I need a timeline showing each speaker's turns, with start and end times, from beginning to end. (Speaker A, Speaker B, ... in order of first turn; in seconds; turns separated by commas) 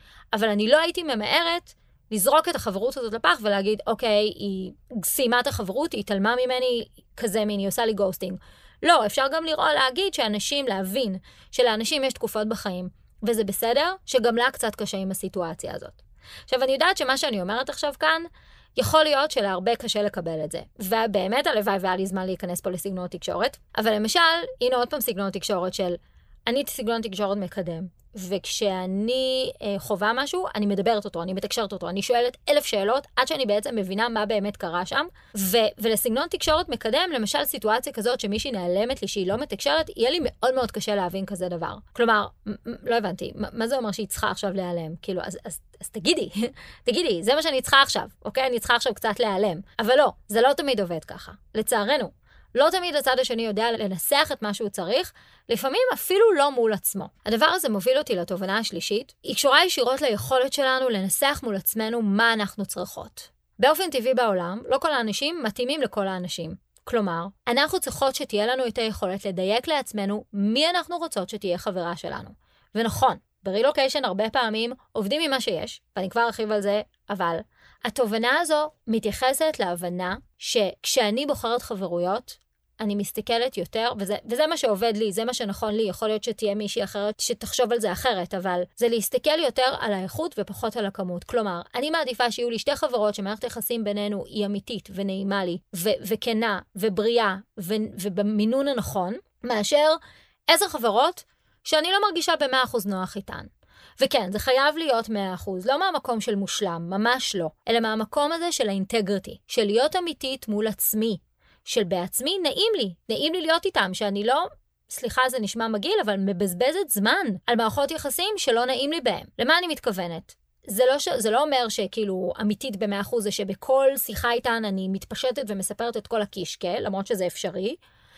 Speaker A: 0.3-127.8